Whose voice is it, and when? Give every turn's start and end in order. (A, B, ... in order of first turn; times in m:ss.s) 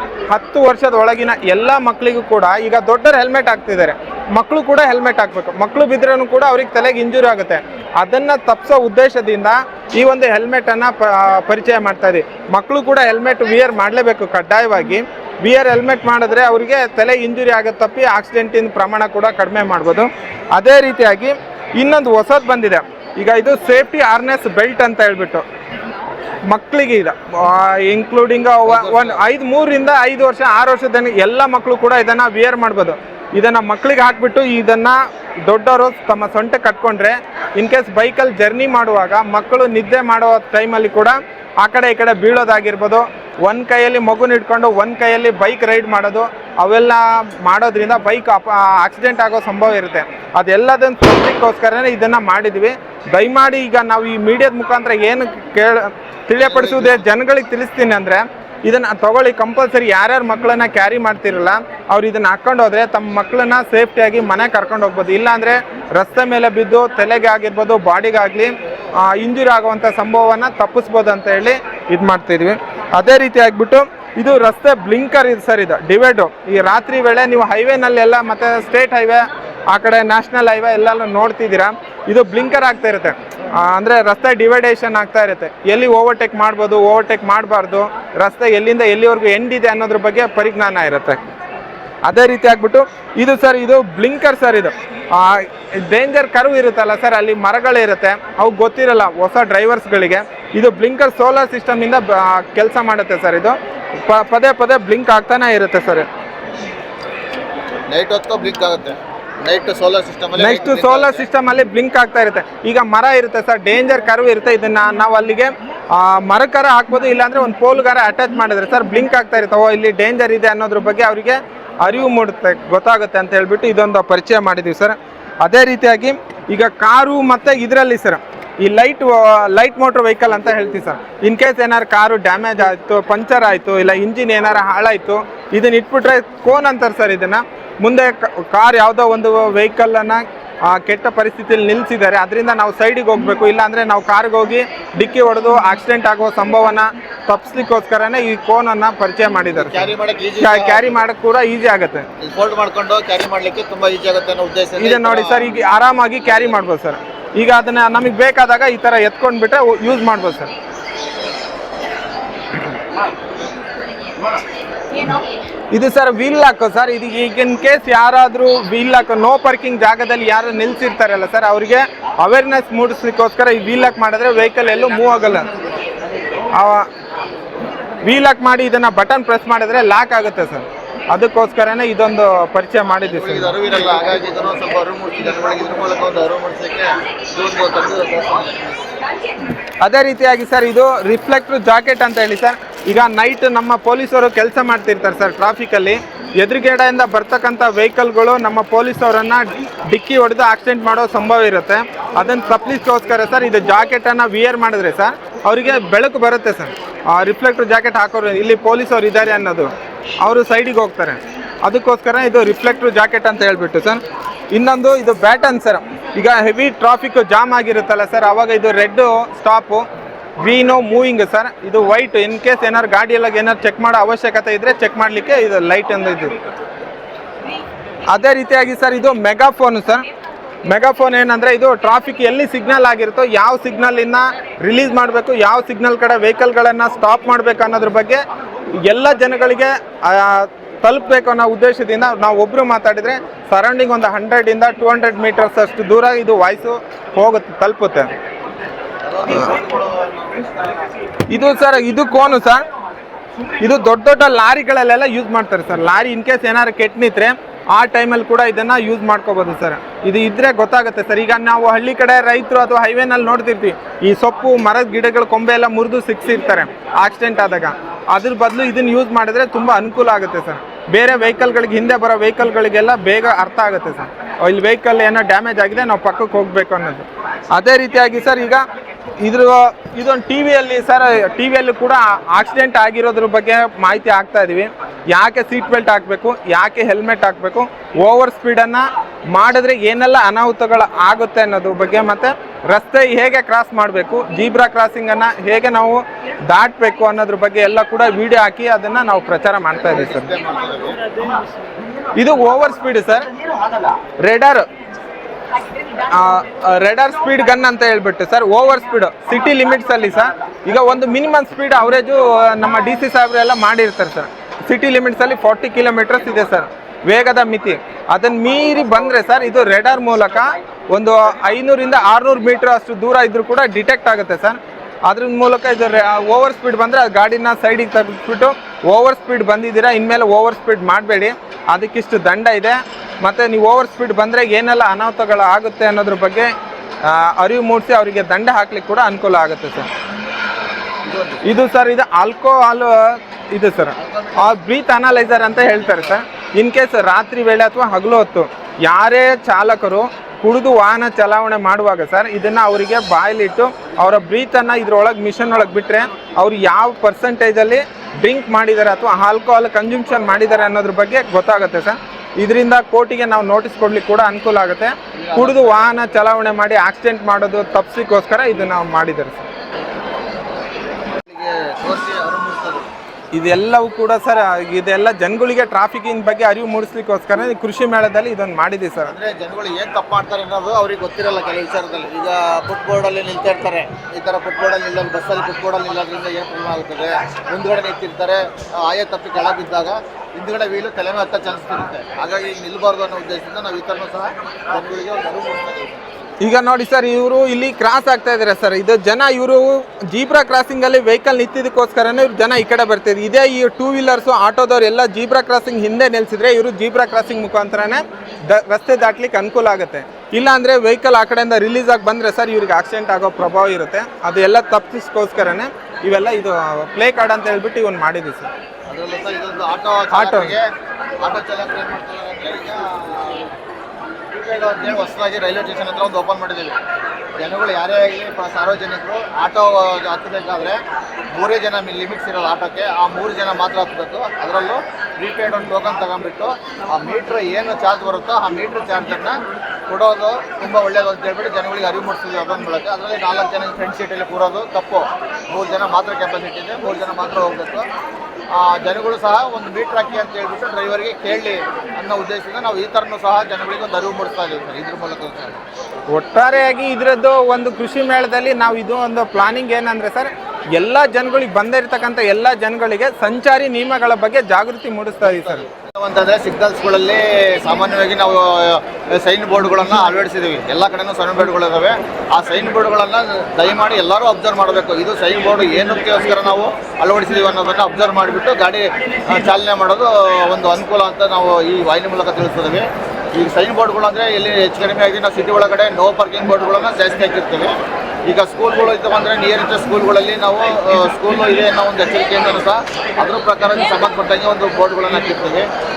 0:00.3-0:25.4 A
0:26.5-1:31.2 A
0:28.7-0:29.2 B
0:56.4-0:57.0 B
1:32.0-1:46.1 A
1:47.9-1:51.3 B
1:50.4-2:32.1 A
2:29.5-2:31.0 B
2:32.2-2:35.5 B
2:34.8-2:40.5 A
2:45.7-2:55.5 A
2:56.5-2:56.9 A
2:58.0-3:03.5 A
3:03.0-3:08.9 B
3:09.8-3:39.8 A
3:40.4-3:46.3 A
3:48.1-3:50.1 A
3:50.7-3:58.2 A
3:58.8-4:08.1 A
4:09.0-4:10.9 B
4:11.3-4:12.7 A
4:13.6-4:38.6 A
4:39.2-5:00.3 A
4:59.9-5:01.0 B
5:02.2-5:03.3 A
5:04.2-5:04.6 A
5:06.0-5:36.5 A
5:37.0-5:39.9 A
5:41.0-5:41.4 B
5:41.4-6:09.5 A
5:44.0-5:44.5 B
6:05.1-6:06.0 B
6:11.3-6:12.9 B
6:13.3-6:19.1 A
6:19.0-6:36.2 B
6:36.4-6:58.5 A
6:58.9-7:00.7 B
7:00.1-7:00.5 A
7:01.2-7:03.5 B
7:04.3-7:06.8 B
7:07.4-7:10.8 B
7:11.3-7:27.9 B
7:28.5-7:35.6 B
7:36.1-7:45.6 A
7:45.5-8:02.8 B
8:03.4-8:07.7 B
8:08.3-8:15.7 B